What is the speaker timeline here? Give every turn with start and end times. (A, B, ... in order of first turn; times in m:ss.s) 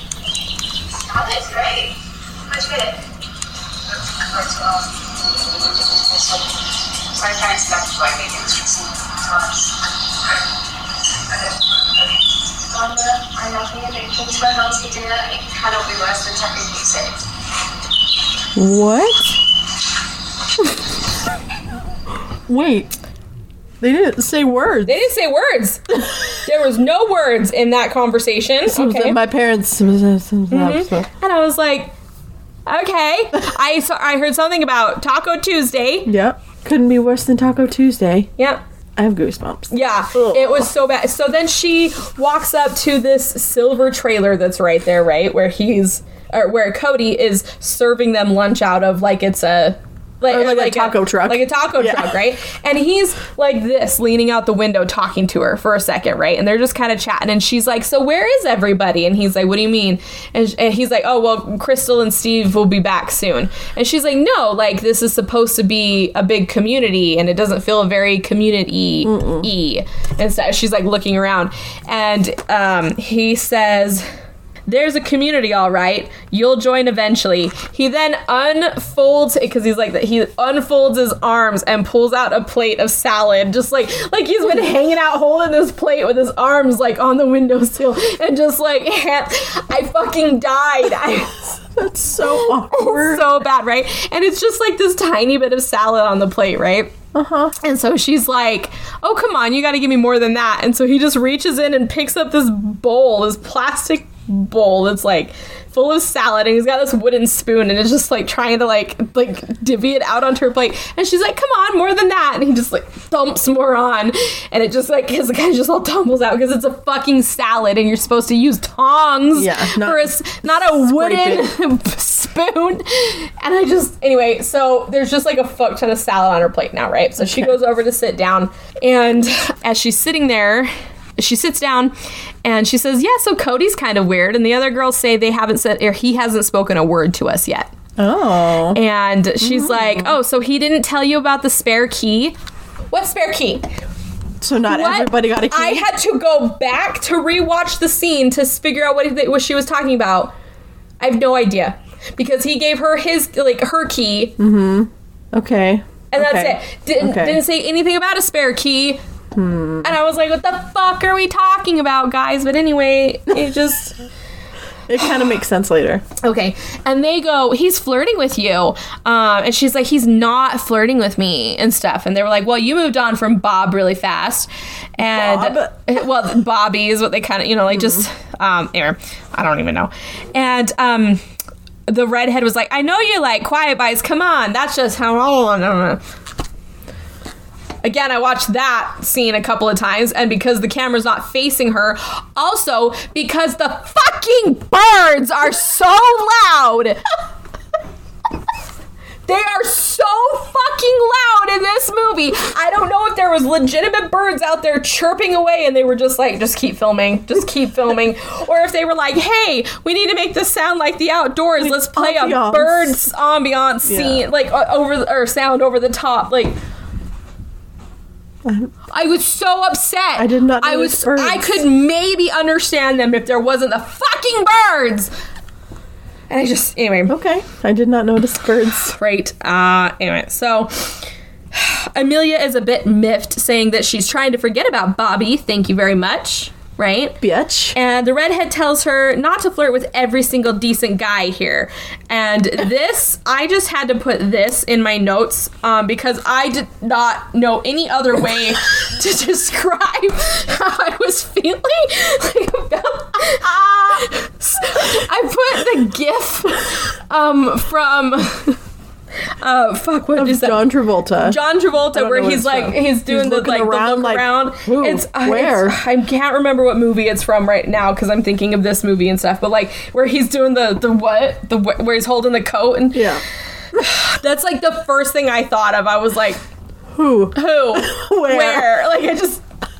0:01.1-0:01.9 A
0:02.5-0:02.9 A
0:04.1-0:09.9 A
0:11.3-0:12.0 A
0:12.7-0:17.2 A
0:18.6-0:19.4 B
0:22.5-0:22.9 B
0:23.8-0:25.1 B
0:24.9-0:29.2 C
0:28.7-0:31.1 B
0:30.5-0:31.9 C
0:32.7-0:36.1 C
0:36.1-0:38.3 B
0:39.0-0:40.7 B
0:39.7-1:14.1 C
0:50.3-0:52.2 B
1:09.0-1:09.5 B
1:14.7-1:31.4 C
1:31.7-1:33.4 B
1:32.2-1:36.9 C
1:37.1-1:37.5 B
1:37.6-2:11.9 C
1:59.3-2:01.5 B
2:07.2-2:07.5 B
2:12.4-2:17.7 C
2:18.0-2:18.8 B
2:18.7-2:22.4 C
2:19.4-2:20.2 B
2:22.9-2:23.7 C
2:24.4-2:25.9 B
2:24.7-2:30.3 C
2:31.0-2:34.4 C
2:34.4-2:37.4 B
2:36.1-2:39.0 C
2:39.4-2:39.9 B
2:39.8-2:43.9 C
2:44.9-2:46.1 B
2:46.2-3:01.2 C
2:55.0-2:55.9 B
3:01.9-3:06.0 C
3:07.8-3:17.0 C
3:19.3-3:36.6 C
3:31.6-3:33.0 B
3:33.8-3:34.2 B
3:38.4-3:38.7 B
3:38.9-3:45.1 C
3:40.2-3:41.6 B
3:46.3-3:47.2 C
3:47.1-3:49.0 B
3:49.0-3:57.2 C
3:57.2-3:57.8 B
3:57.7-4:18.6 C
4:19.4-4:20.7 C
4:20.2-4:21.4 B
4:21.2-4:33.2 C
4:21.9-4:25.8 B
4:32.9-4:33.2 B
4:33.7-4:36.4 C
4:37.0-4:38.7 B
4:37.3-4:39.4 C